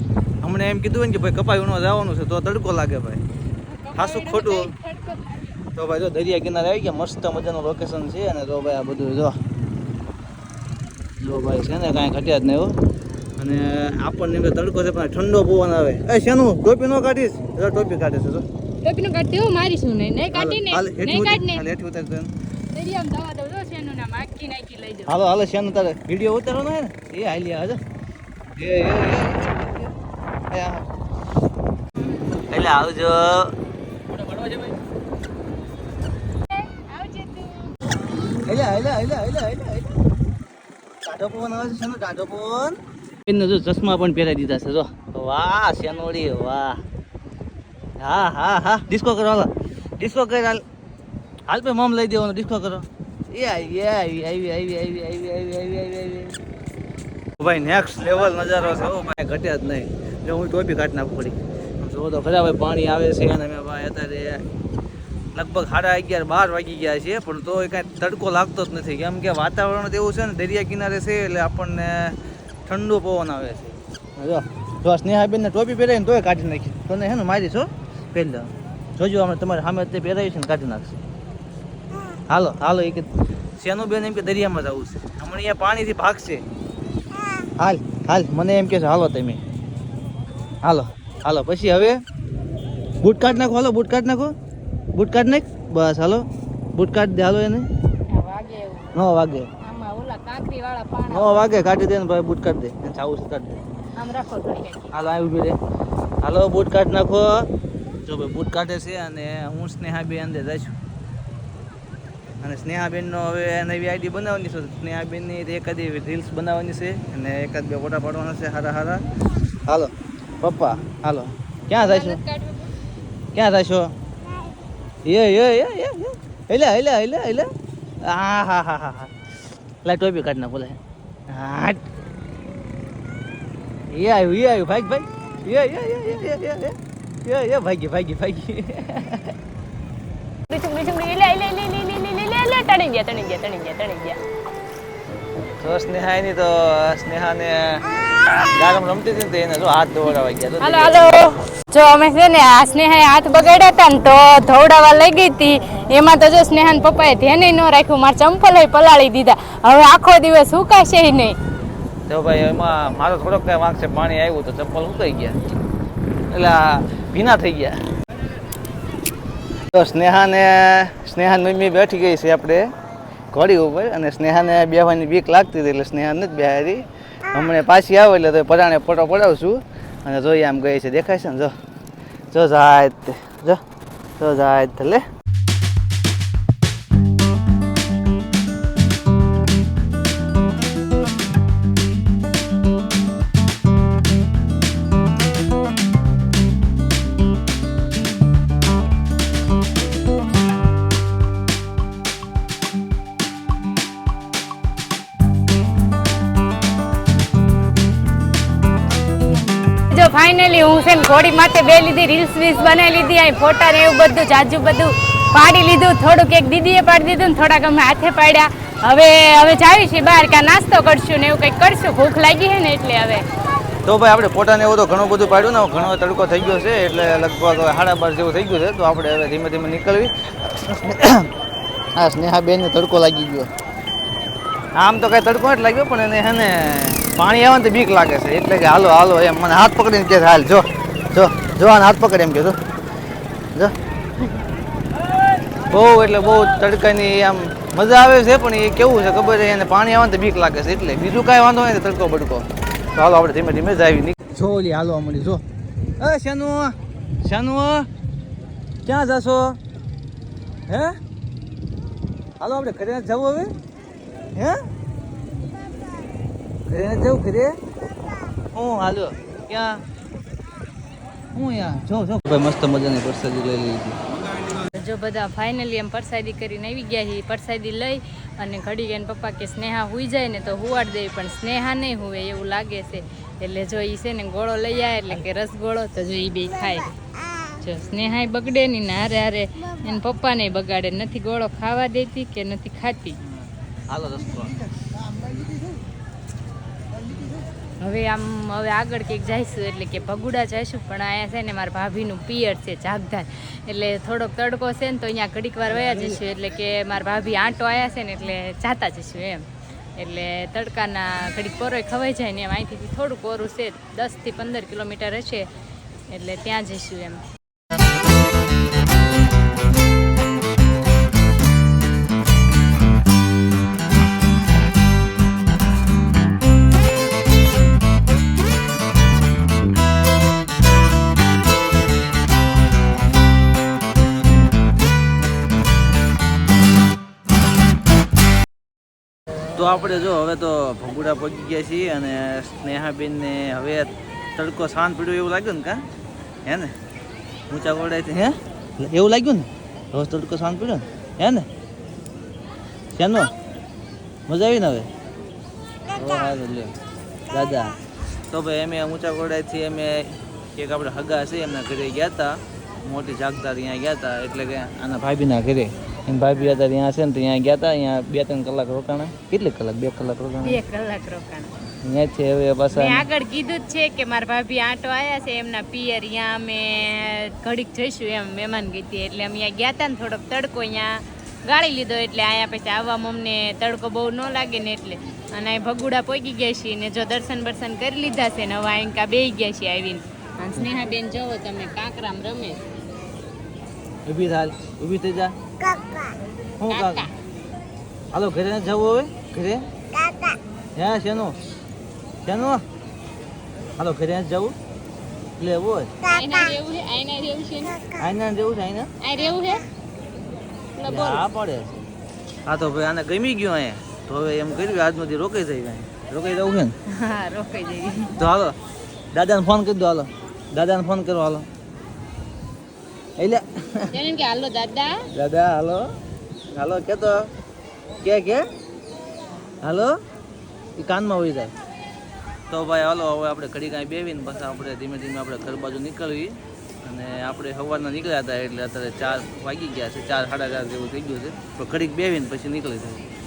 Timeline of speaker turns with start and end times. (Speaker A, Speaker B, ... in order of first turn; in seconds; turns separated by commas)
Speaker A: 0.4-3.2, Speaker B: 3.7-5.4, Speaker A: 4.0-4.7, Speaker A: 5.8-9.4, Speaker A: 11.2-12.8, Speaker A: 13.4-18.4, Speaker B: 18.8-21.6, Speaker A: 20.3-22.3, Speaker B: 22.7-25.1, Speaker A: 25.1-27.8, Speaker A: 28.6-29.9, Speaker A: 30.5-30.9, Speaker A: 32.3-33.5, Speaker A: 34.2-34.7, Speaker B: 36.6-37.7, Speaker A: 38.5-40.0, Speaker A: 41.0-46.8, Speaker A: 48.0-50.6, Speaker A: 51.5-56.4, Speaker A: 57.4-64.4, Speaker A: 65.3-81.0, Speaker A: 82.3-86.4, Speaker A: 87.6-89.4, Speaker A: 90.6-92.0, Speaker A: 93.0-94.3, Speaker A: 94.9-97.7, Speaker B: 98.1-99.0, Speaker A: 98.9-99.5, Speaker B: 99.6-101.5, Speaker A: 101.1-103.6, Speaker B: 104.0-104.9, Speaker A: 104.9-105.6, Speaker A: 106.2-107.5, Speaker A: 108.0-110.8, Speaker A: 112.4-119.1, Speaker A: 119.7-122.2, Speaker B: 121.9-122.5, Speaker A: 123.3-123.9, Speaker A: 125.0-127.5, Speaker A: 128.0-129.1, Speaker A: 129.8-130.8, Speaker A: 131.3-131.8, Speaker A: 133.9-139.3, Speaker B: 140.5-144.2, Speaker A: 145.6-147.9, Speaker A: 148.4-151.4, Speaker B: 150.6-161.4, Speaker A: 162.1-165.4, Speaker A: 166.3-167.8, Speaker A: 169.7-172.7, Speaker A: 173.3-181.5, Speaker A: 182.3-183.6, Speaker A: 184.2-185.1, Speaker B: 209.9-223.2, Speaker A: 223.8-231.3, Speaker A: 231.9-233.5, Speaker A: 234.7-242.6, Speaker A: 245.7-255.4, Speaker A: 256.0-257.9, Speaker A: 258.9-259.6, Speaker A: 260.7-261.0, Speaker A: 262.4-263.5, Speaker A: 264.4-264.6, Speaker A: 266.7-267.6, Speaker A: 268.5-269.8, Speaker A: 271.4-274.0, Speaker B: 274.7-293.2, Speaker A: 293.2-294.6, Speaker B: 297.8-315.5, Speaker B: 316.1-317.2, Speaker A: 339.6-345.9, Speaker A: 346.4-346.7, Speaker A: 347.5-351.5, Speaker A: 353.0-353.3, Speaker A: 354.3-354.9, Speaker A: 355.9-356.8, Speaker A: 357.3-357.8, Speaker A: 358.3-370.6, Speaker B: 370.4-371.5, Speaker A: 371.8-373.1, Speaker B: 372.7-392.6, Speaker A: 394.1-395.4, Speaker A: 396.6-397.1, Speaker B: 396.7-397.1, Speaker A: 398.1-399.6, Speaker A: 400.8-401.4, Speaker A: 402.2-402.6, Speaker A: 403.8-404.6, Speaker A: 405.4-405.9, Speaker B: 406.1-407.9, Speaker A: 408.0-408.9, Speaker B: 409.0-409.7, Speaker B: 410.8-411.3, Speaker A: 410.9-411.9, Speaker A: 412.5-416.8, Speaker B: 416.9-418.2, Speaker A: 418.2-418.6, Speaker A: 419.1-421.5, Speaker A: 423.2-424.0, Speaker B: 423.9-425.1, Speaker A: 425.1-425.9, Speaker A: 426.5-427.3, Speaker A: 428.0-428.5, Speaker A: 429.6-429.9, Speaker A: 430.8-431.5, Speaker A: 432.5-443.1